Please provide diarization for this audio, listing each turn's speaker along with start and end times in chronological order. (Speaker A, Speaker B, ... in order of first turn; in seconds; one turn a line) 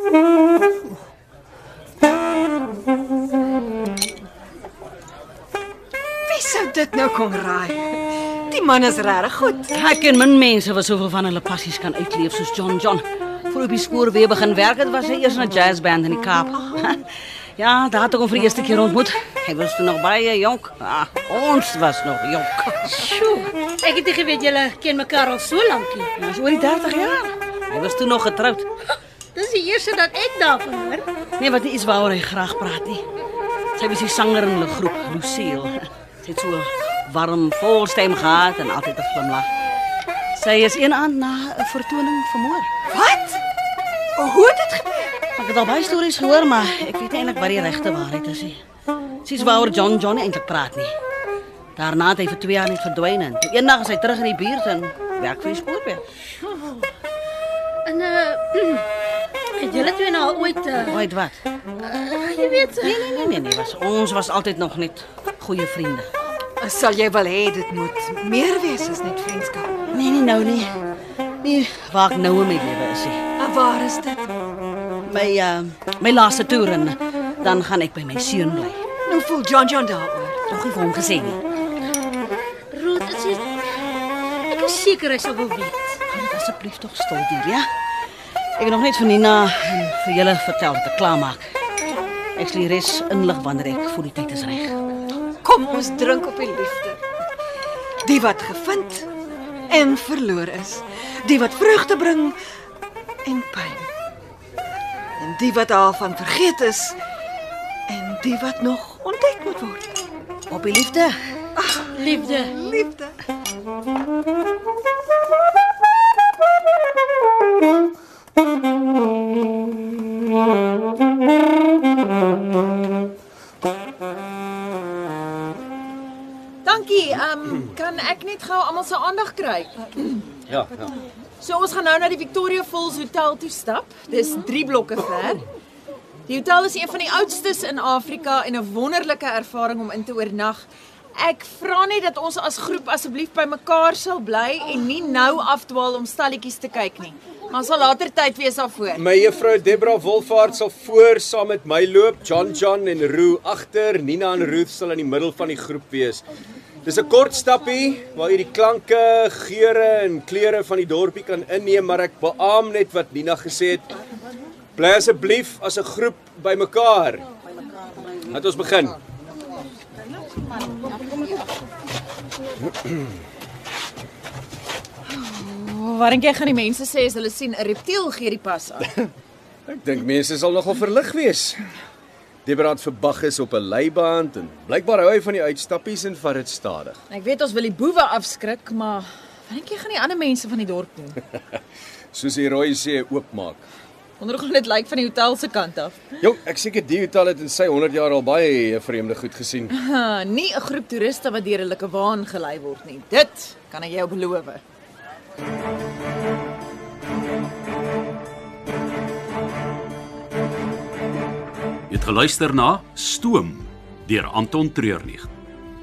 Speaker A: 6.3-9.7
Speaker B: 9.7-17.1
Speaker B: 17.6-23.1
Speaker C: 22.9-26.1
Speaker B: 26.2-28.7
Speaker C: 29.3-31.1
Speaker B: 31.4-33.0
Speaker B: 33.8-39.5
Speaker B: 40.3-42.7
Speaker A: 42.9-43.4
Speaker A: 44.1-45.1
Speaker B: 45.4-48.6
Speaker B: 49.2-50.9
Speaker B: 51.8-56.0
Speaker C: 57.9-58.9
Speaker C: 59.5-61.1
Speaker B: 60.8-61.4
Speaker C: 61.8-62.9
Speaker B: 62.7-66.1
Speaker A: 66.6-69.8
Speaker B: 69.9-70.7
Speaker B: 71.4-73.2
Speaker A: 73.4-74.3
Speaker B: 75.0-78.8
Speaker A: 79.0-80.4
Speaker B: 80.5-81.4
Speaker C: 82.7-83.8
Speaker C: 84.5-86.0
Speaker B: 86.1-87.7
Speaker B: 88.6-91.4
Speaker B: 92.3-94.8
Speaker A: 95.4-97.0
Speaker A: 98.0-99.1
Speaker A: 99.7-102.3
Speaker A: 103.2-103.9
Speaker A: 105.2-107.0
Speaker A: 107.9-109.9
Speaker B: 110.5-111.2
Speaker A: 111.5-113.2
Speaker C: 111.9-112.5
Speaker D: 126.6-130.2
Speaker E: 130.5-130.9
Speaker D: 131.4-135.4
Speaker D: 136.3-149.0
Speaker E: 148.9-156.2
Speaker E: 156.8-163.9
Speaker E: 164.7-167.2
Speaker E: 168.2-169.0
Speaker D: 175.1-178.9
Speaker E: 179.7-181.6
Speaker E: 182.4-187.0
Speaker D: 187.1-191.2
Speaker E: 192.1-193.6
Speaker D: 194.2-196.0
Speaker E: 196.2-199.7
Speaker D: 199.7-204.6
Speaker F: 211.9-215.3